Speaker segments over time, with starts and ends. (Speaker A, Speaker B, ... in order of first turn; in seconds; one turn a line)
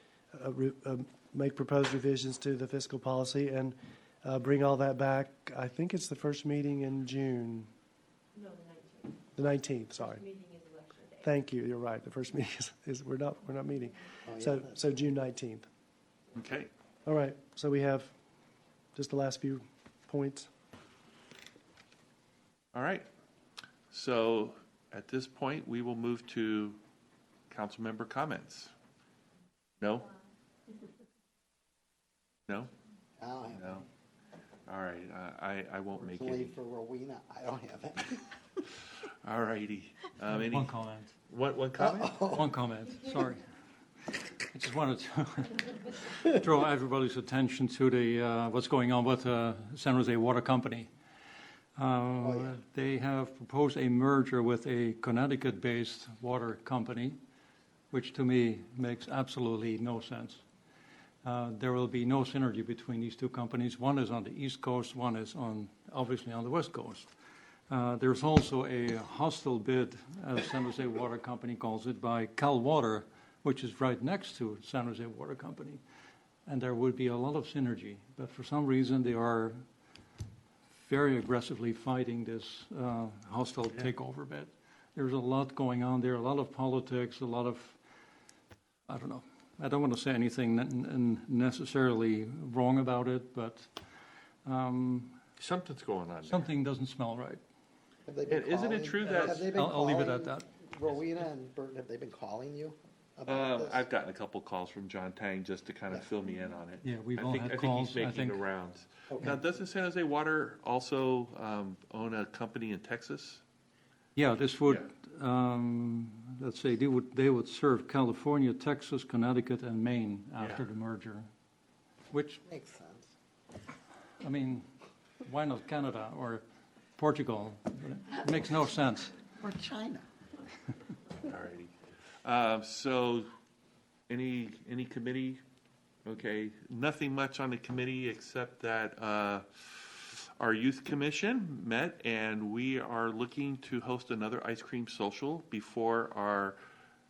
Speaker A: 0.3-7.7
Speaker B: 8.3-9.3
Speaker A: 9.4-10.2
Speaker B: 10.1-11.2
Speaker A: 11.2-15.7
Speaker C: 14.3-14.9
Speaker D: 16.3-16.7
Speaker A: 17.1-18.1
Speaker A: 18.9-20.5
Speaker D: 22.7-23.1
Speaker D: 23.9-26.8
Speaker D: 27.5-28.7
Speaker D: 29.8-30.1
Speaker C: 33.2-33.8
Speaker D: 33.5-33.9
Speaker D: 34.7-36.6
Speaker C: 35.9-38.2
Speaker D: 39.2-40.8
Speaker E: 40.3-41.1
Speaker D: 41.3-42.4
Speaker C: 41.8-42.4
Speaker E: 42.3-43.4
Speaker E: 44.0-50.9
Speaker E: 51.8-57.2
Speaker C: 52.2-52.6
Speaker E: 57.9-60.4
Speaker E: 61.2-67.1
Speaker E: 67.7-75.8
Speaker E: 76.5-79.6
Speaker E: 80.7-87.8
Speaker E: 88.9-93.7
Speaker E: 94.4-95.2
Speaker D: 95.4-96.5
Speaker E: 96.2-97.4
Speaker C: 98.1-103.8
Speaker D: 98.3-99.5
Speaker E: 99.1-100.5
Speaker D: 103.2-113.4
Speaker E: 106.8-108.4
Speaker C: 109.1-109.3
Speaker E: 114.2-121.2
Speaker E: 122.1-122.4
Speaker C: 122.5-123.1
Speaker E: 124.2-124.7
Speaker E: 125.2-126.4
Speaker E: 127.0-129.2
Speaker C: 129.4-130.1
Speaker D: 131.2-131.7
Speaker D: 132.2-133.3
Speaker D: 134.1-135.4
Speaker D: 136.1-146.6